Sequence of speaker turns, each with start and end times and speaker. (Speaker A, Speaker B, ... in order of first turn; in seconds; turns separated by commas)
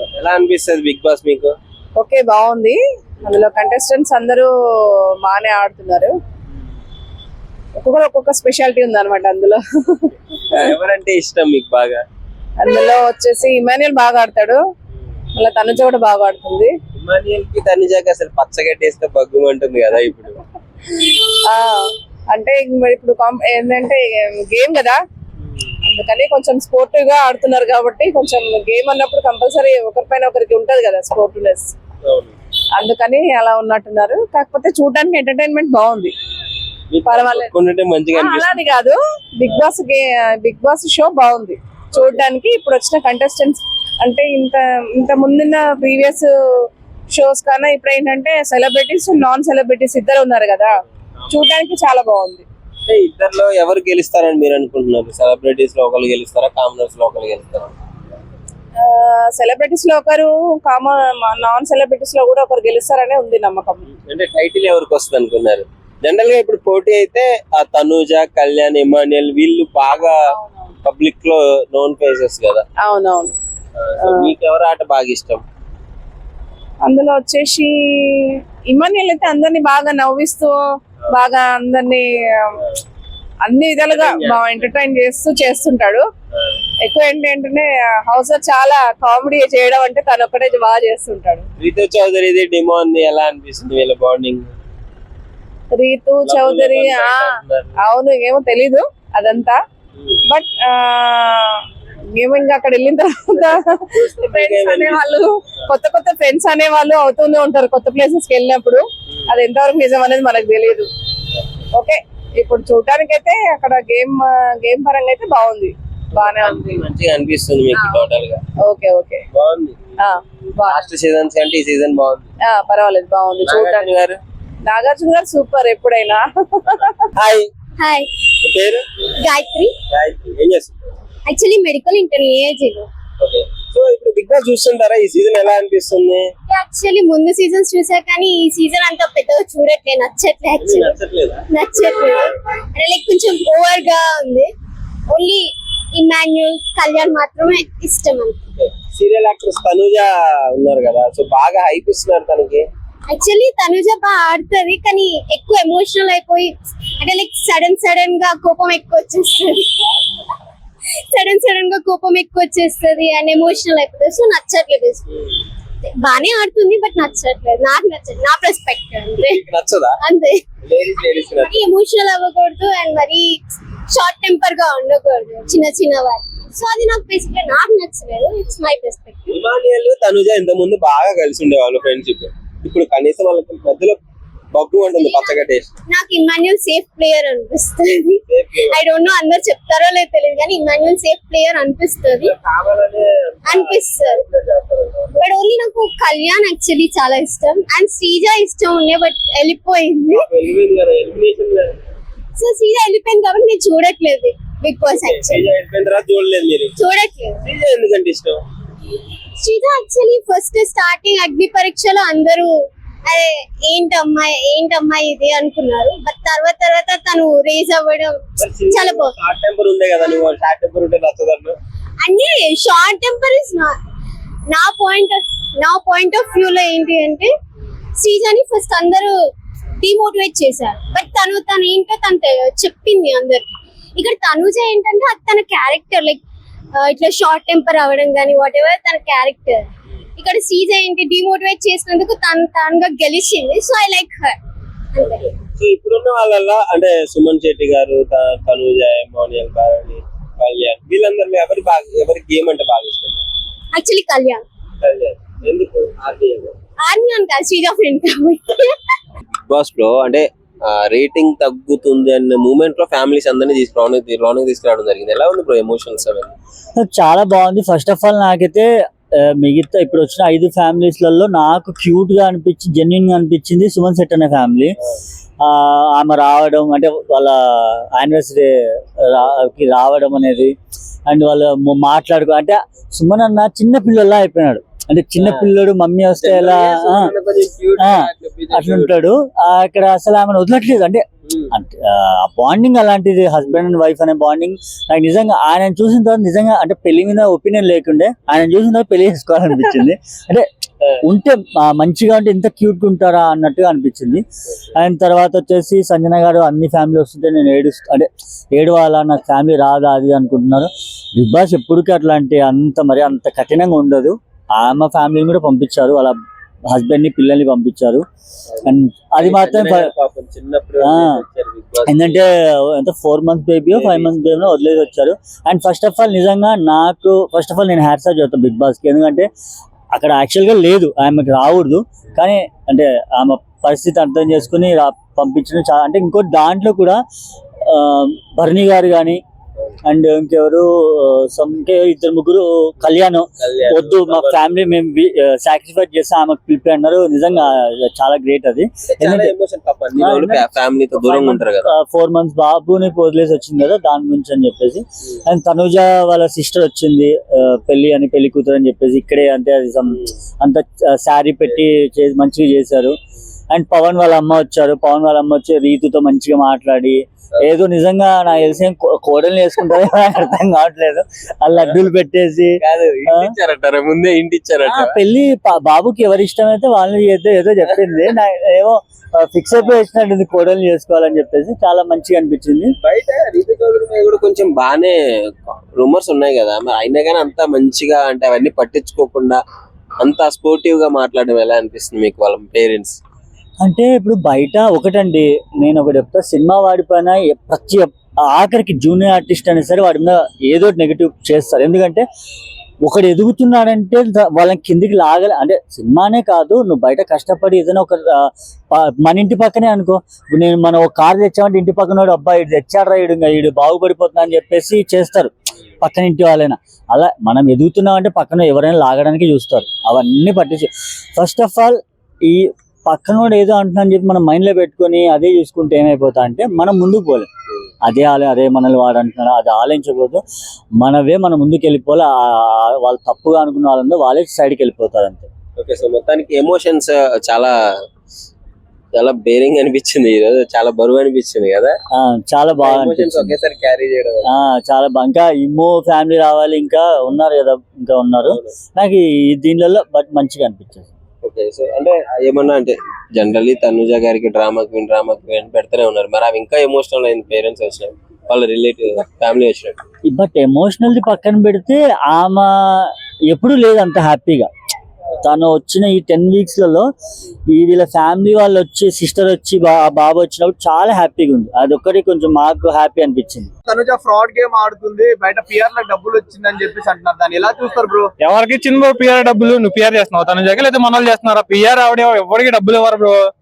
Speaker A: 0.1-1.5, Speaker B: 2.0-4.5, Speaker B: 5.2-6.1, Speaker B: 7.8-9.6, Speaker A: 10.5-12.0, Speaker B: 12.6-14.6, Speaker B: 15.3-16.7, Speaker A: 16.9-20.4, Speaker B: 21.5-21.8, Speaker B: 22.3-25.0, Speaker B: 25.9-31.7, Speaker A: 32.1-32.3, Speaker B: 32.8-36.1, Speaker A: 36.9-38.6, Speaker B: 37.0-37.5, Speaker B: 38.1-46.3, Speaker B: 47.1-50.7, Speaker B: 51.3-52.4, Speaker A: 52.9-57.7, Speaker B: 58.8-63.8, Speaker A: 64.0-70.1, Speaker B: 70.3-70.7, Speaker A: 70.8-72.6, Speaker B: 72.8-73.3, Speaker B: 74.0-74.3, Speaker A: 74.0-75.4, Speaker B: 76.8-80.5, Speaker B: 81.1-82.1, Speaker B: 83.4-86.0, Speaker A: 83.9-84.7, Speaker B: 86.8-91.4, Speaker A: 91.6-94.5, Speaker B: 95.7-99.6, Speaker A: 96.2-97.7, Speaker B: 100.3-101.5, Speaker B: 102.1-110.9, Speaker A: 104.0-105.2, Speaker B: 111.8-116.8, Speaker A: 116.2-118.4, Speaker B: 118.6-119.2, Speaker A: 119.3-119.8, Speaker B: 120.0-120.8, Speaker A: 120.7-122.2, Speaker B: 122.5-123.9, Speaker A: 123.4-124.2, Speaker B: 124.7-126.9, Speaker A: 127.2-127.5, Speaker C: 127.8-128.1, Speaker A: 128.4-128.8, Speaker C: 129.2-129.7, Speaker A: 129.9-130.7, Speaker C: 131.2-132.9, Speaker A: 133.2-136.3, Speaker C: 136.5-140.9, Speaker A: 140.6-141.4, Speaker C: 141.5-144.5, Speaker C: 145.1-148.4, Speaker A: 148.6-152.6, Speaker C: 153.1-159.7, Speaker C: 161.1-165.1, Speaker C: 165.9-169.4, Speaker A: 169.2-170.0, Speaker C: 170.0-170.4, Speaker A: 170.6-171.7, Speaker C: 171.2-179.4, Speaker A: 179.3-184.0, Speaker A: 184.5-185.7, Speaker C: 184.9-192.3, Speaker A: 188.3-188.8, Speaker A: 192.2-195.1, Speaker C: 193.5-194.2, Speaker C: 195.1-200.3, Speaker A: 200.2-201.7, Speaker C: 202.4-205.4, Speaker A: 204.9-206.8, Speaker C: 206.8-207.4, Speaker A: 207.4-208.4, Speaker C: 209.4-212.5, Speaker C: 213.1-219.1, Speaker A: 218.4-221.6, Speaker C: 222.0-223.8, Speaker C: 224.5-227.3, Speaker C: 228.0-229.2, Speaker C: 229.8-236.2, Speaker C: 236.7-244.3, Speaker C: 244.9-245.2, Speaker A: 245.0-253.2, Speaker C: 253.7-254.4, Speaker A: 254.8-256.5, Speaker C: 256.8-258.7, Speaker A: 259.5-266.3, Speaker D: 266.8-268.7, Speaker D: 269.2-274.7, Speaker D: 275.4-280.5, Speaker D: 281.1-287.1, Speaker A: 285.2-285.5, Speaker A: 286.2-289.0, Speaker D: 287.8-300.5, Speaker D: 301.0-304.2, Speaker D: 304.8-316.1, Speaker D: 316.7-318.0, Speaker A: 318.5-322.2, Speaker D: 318.6-319.9, Speaker D: 320.8-321.2, Speaker D: 321.9-329.3, Speaker A: 323.7-324.1, Speaker D: 329.9-337.0, Speaker D: 337.7-339.2, Speaker D: 339.9-349.3, Speaker A: 343.4-344.4, Speaker A: 348.9-351.7, Speaker D: 349.9-362.9, Speaker D: 363.5-373.3, Speaker A: 372.6-375.0, Speaker D: 374.6-382.7, Speaker A: 382.8-384.9, Speaker A: 385.8-389.4, Speaker A: 390.0-393.0, Speaker D: 393.6-402.0, Speaker D: 402.8-415.3, Speaker D: 415.8-427.3, Speaker D: 427.9-430.2, Speaker D: 430.8-435.3, Speaker A: 435.6-437.5, Speaker A: 439.0-441.7, Speaker D: 442.0-443.3, Speaker A: 442.6-444.2, Speaker D: 444.3-450.9, Speaker A: 448.2-448.5, Speaker A: 451.2-459.8, Speaker D: 460.1-464.5, Speaker D: 465.2-466.9, Speaker D: 467.5-473.5, Speaker E: 473.7-478.1, Speaker F: 478.2-483.3